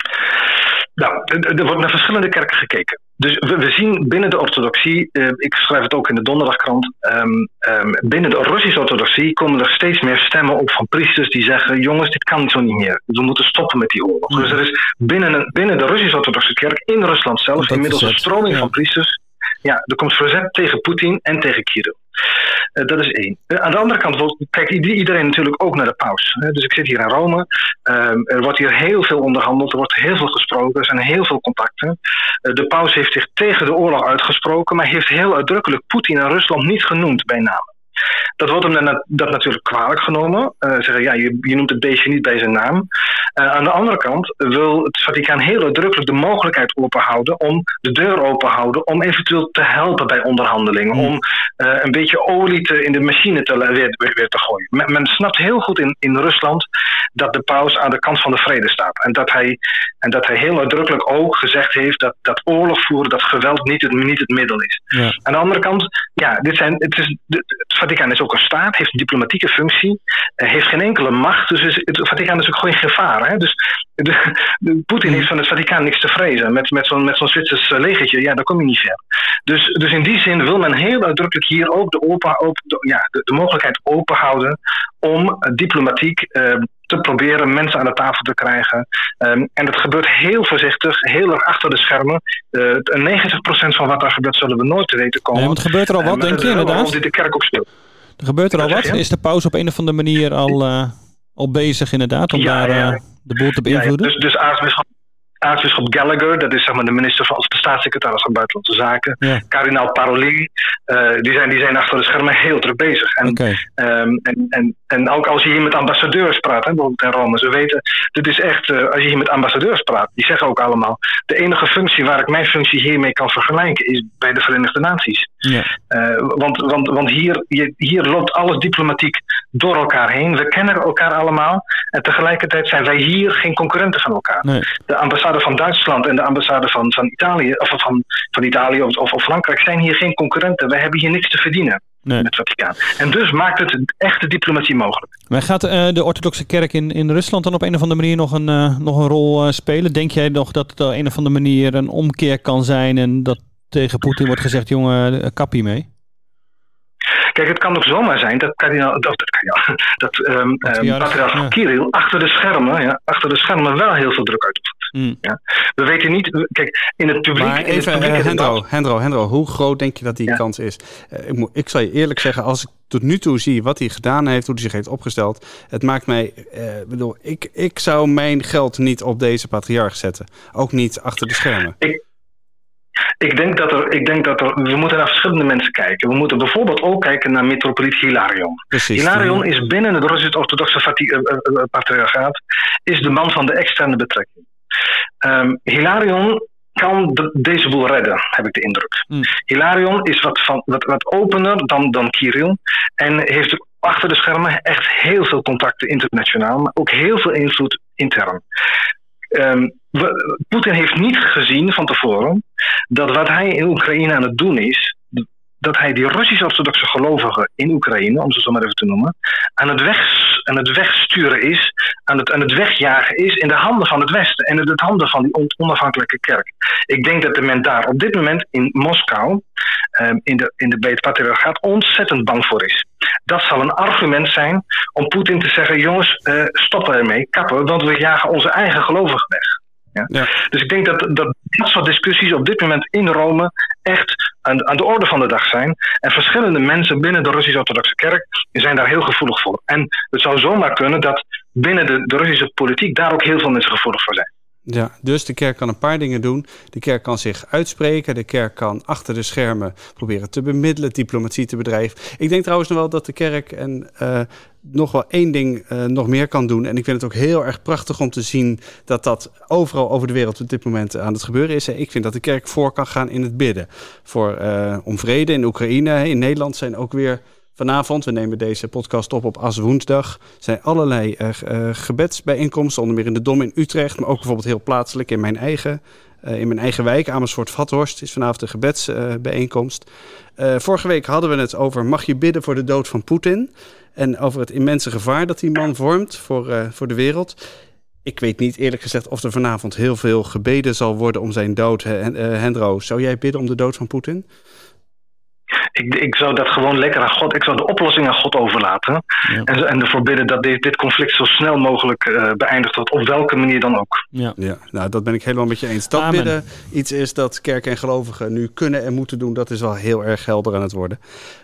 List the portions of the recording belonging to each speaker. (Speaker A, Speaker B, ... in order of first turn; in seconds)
Speaker A: 1.0-22.0, 22.8-37.7, 38.4-97.7, 98.5-99.0, 102.3-103.0, 103.7-104.9, 105.4-125.3, 125.9-145.1, 157.3-168.6, 183.2-194.5, 195.2-208.4, 209.3-229.4, 230.0-254.3, 305.8-314.0
Speaker B: 14.3-14.6, 17.6-18.7, 95.3-97.0, 98.2-104.1, 113.2-113.6, 145.3-155.9, 160.6-161.5, 315.9-316.3
Speaker C: 167.4-181.8, 188.7-189.4, 254.7-297.4, 298.1-304.3, 314.4-321.0